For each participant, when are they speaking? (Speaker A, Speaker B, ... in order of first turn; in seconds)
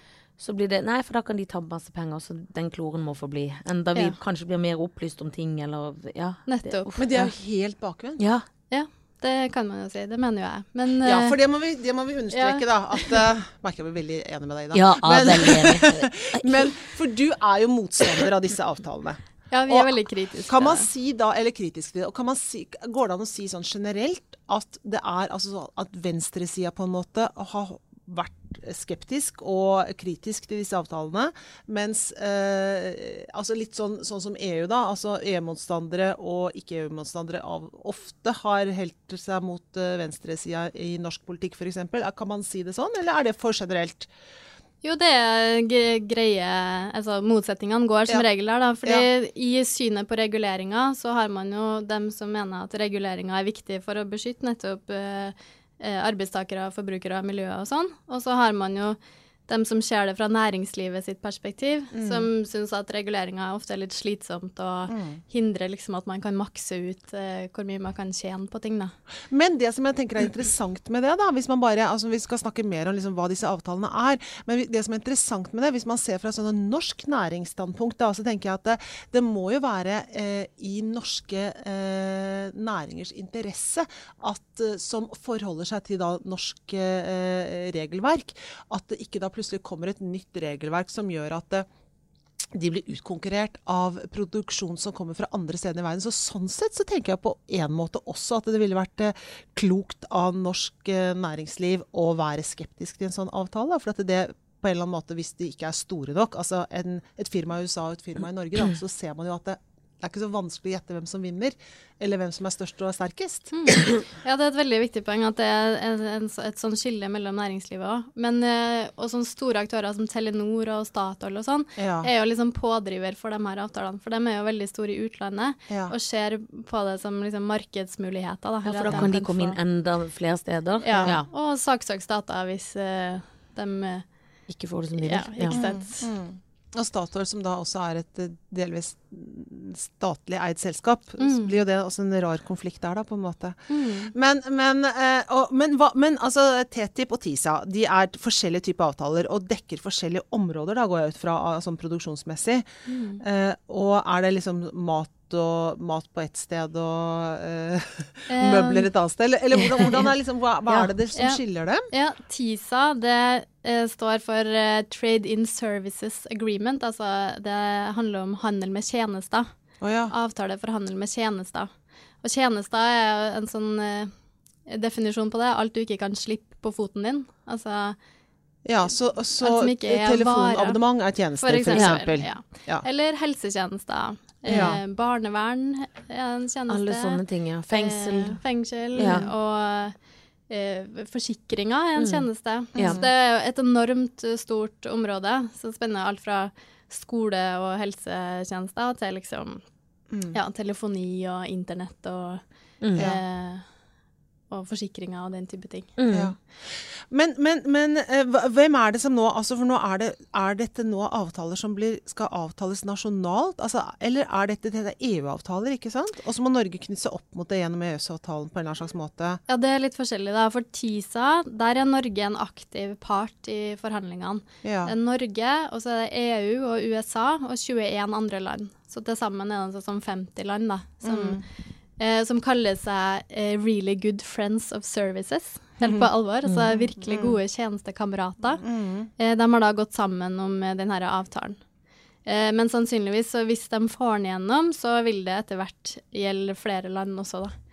Speaker A: 0.4-7.3, 8.2-8.5, 14.7-16.7, 128.6-131.2, 134.5-135.7, 159.8-160.0, 181.7-182.0, 184.5-184.8, 186.7-188.4, 188.9-189.3, 192.0-193.0, 202.8-203.1, 206.0-206.3
Speaker B: 6.5-7.0, 8.7-11.4, 12.3-13.2, 19.5-20.9, 44.8-69.0, 113.5-129.6, 130.8-134.1, 135.0-136.1, 141.2-141.5, 143.7-144.1, 152.9-153.2, 158.3-158.9, 160.7-161.4, 161.9-169.5, 170.1-171.7, 172.2-174.1, 174.7-178.0, 179.4-180.8, 181.3-189.9, 190.5-199.6, 200.3-203.7, 204.5-205.9, 219.5-231.4, 232.0-238.6, 239.2-241.6, 242.3-247.6
Speaker C: 7.0-8.2, 11.0-20.0, 20.5-44.1, 61.9-62.3, 64.9-65.2, 69.3-91.7, 92.5-113.5, 121.8-122.1, 125.7-125.9, 130.9-131.2, 135.5-143.6, 144.1-161.9, 169.8-170.1, 178.7-182.8, 184.5-184.8, 189.0-189.3, 192.8-193.1, 200.1-200.4, 203.0-203.2, 206.1-219.4, 224.6-224.9, 231.0-231.4, 235.8-236.1, 236.7-237.4, 238.6-239.1